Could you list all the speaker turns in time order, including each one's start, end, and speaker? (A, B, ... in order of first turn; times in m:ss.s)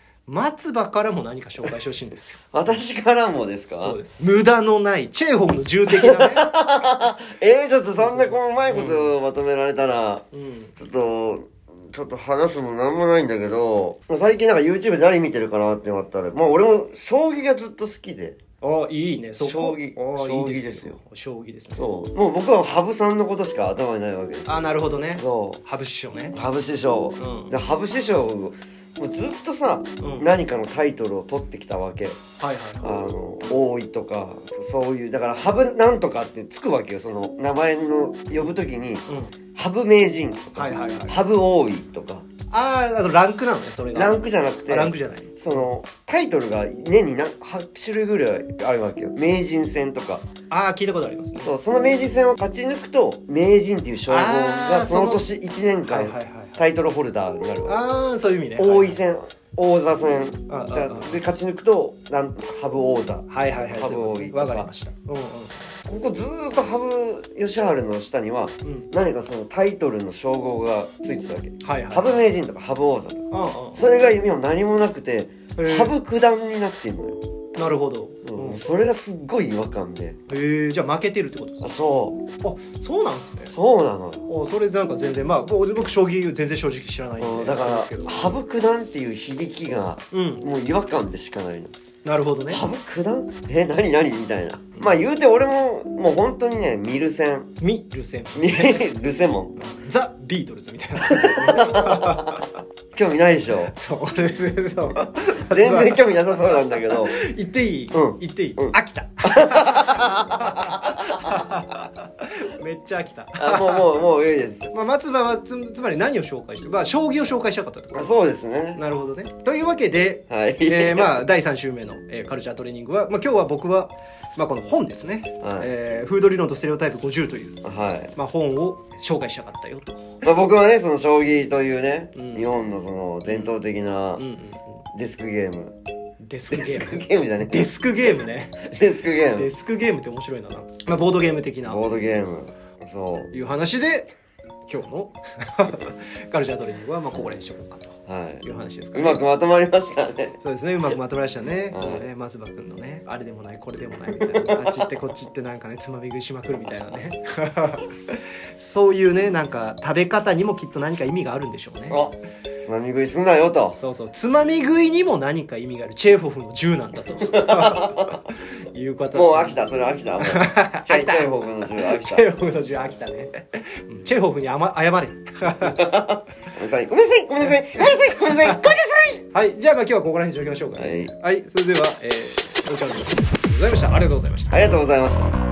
0:00.3-0:02.4 A
0:02.5-0:04.0 B
0:03.7-0:06.5 A
0:05.9-0:10.2 B
0:08.0-0:09.1 A
0:10.3-0:10.7 A
0:10.8-0:18.4 B
0:18.6-0:21.9 A
0:19.4-0:21.0 B
0:21.8-0:25.6 B
0:24.4-0:26.4 A
0:26.3-0:32.2 B
0:27.2-0:27.5 A
0:30.0-0:30.3 A
0:32.4-0:33.0 A
0:32.8-0:42.2 B
0:39.1-0:39.3 A
0:40.5-0:41.2 A
0:42.5-0:45.7 A
0:43.9-0:50.2 B
0:50.5-0:51.6 A
0:51.4-0:57.8 B
0:54.1-0:55.3 A
0:55.8-0:56.6 A
0:57.6-0:59.0 A
0:58.6-1:04.7 B
1:00.5-1:01.2 A
1:03.3-1:05.7 A
1:05.8-1:17.2 B
1:08.6-1:08.9 A
1:11.6-1:12.2 A
1:13.3-1:13.9 A
1:15.6-1:15.9 A
1:17.5-1:18.6 A
1:18.2-1:20.2 B
1:20.3-1:21.7 A
1:21.6-1:22.3 B
1:22.4-1:23.5 A
1:23.5-1:24.3 B
1:24.2-1:28.3 A
1:27.2-1:31.7 B
1:30.1-1:30.4 A
1:32.0-1:32.7 A
1:32.5-1:37.5 B
1:37.6-1:38.9 A
1:38.3-1:39.5 B
1:39.6-1:42.4 A
1:41.1-1:42.3 B
1:42.9-1:43.7 B
1:43.7-1:54.0 A
1:45.5-1:47.2 B
1:47.9-1:51.4 B
1:53.4-1:54.7 B
1:54.7-1:58.1 A
1:57.9-1:58.8 B
1:58.7-2:07.6 A
2:00.3-2:01.2 B
2:05.4-2:05.7 B
2:07.6-2:08.1 B
2:08.1-2:10.2 A
2:10.2-2:14.2 B
2:12.1-2:12.6 A
2:13.2-2:13.5 A
2:14.2-2:14.8 A
2:14.9-2:15.7 B
2:16.2-2:21.8 A
2:16.5-2:18.1 B
2:18.7-2:19.5 B
2:21.6-2:23.3 B
2:23.3-2:24.1 A
2:24.7-2:29.2 A
2:28.1-2:30.4 B
2:30.4-2:42.0 A
2:31.7-2:32.1 B
2:34.1-2:34.8 B
2:41.9-2:43.8 B
2:43.8-2:48.1 A
2:47.3-2:48.1 B
2:48.7-2:49.6 A
2:49.1-2:52.3 B
2:50.2-2:55.9 A
2:55.7-2:59.2 B
2:57.5-2:58.7 A
2:59.3-3:04.7 A
3:00.7-3:01.1 B
3:04.5-3:05.3 B